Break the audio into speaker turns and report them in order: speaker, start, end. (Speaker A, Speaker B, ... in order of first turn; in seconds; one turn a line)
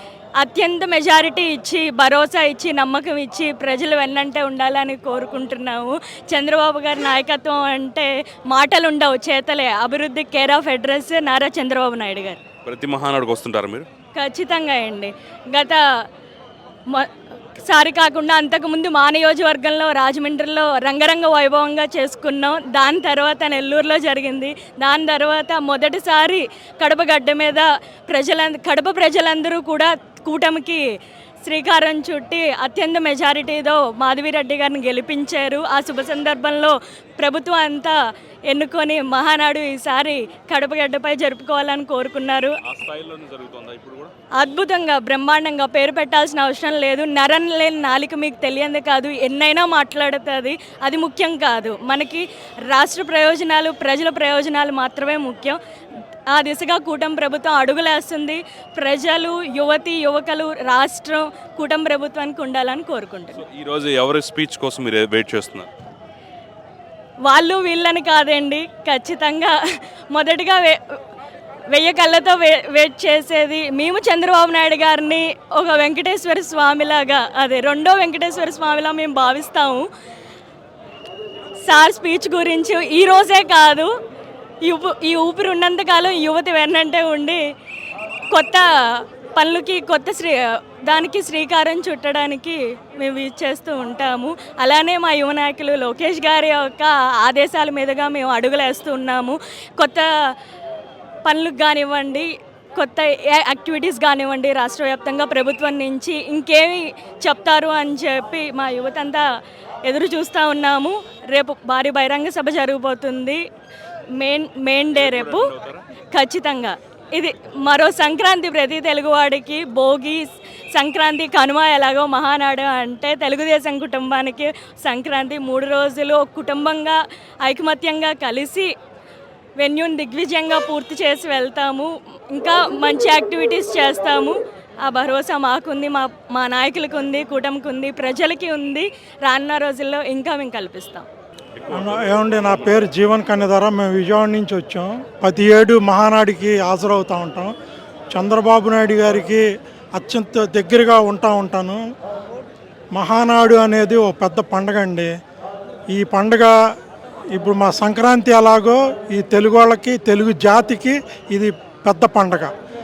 Speaker A: 0.4-12.4
Speaker B: 12.6-13.8
Speaker A: 14.2-15.8
Speaker A: 16.9-30.8
Speaker A: 31.4-37.9
Speaker A: 38.5-42.6
Speaker B: 42.6-44.1
Speaker A: 44.4-55.6
Speaker A: 56.3-63.4
Speaker B: 63.3-65.7
Speaker A: 67.2-69.5
Speaker A: 70.1-70.8
Speaker A: 71.7-79.9
Speaker A: 81.6-83.9
Speaker A: 84.6-87.4
Speaker A: 88.3-88.6
Speaker A: 89.4-100.0
Speaker A: 101.2-109.2
Speaker A: 109.8-113.4
Speaker A: 114.2-115.5
Speaker B: 114.9-115.8
Speaker A: 116.1-120.2
Speaker A: 120.7-128.7
Speaker A: 129.6-141.1
Speaker B: 141.6-142.7
Speaker C: 141.7-147.5
Speaker C: 148.1-149.4
Speaker C: 149.9-151.8
Speaker C: 152.9-155.1
Speaker C: 155.9-156.5
Speaker C: 157.3-162.5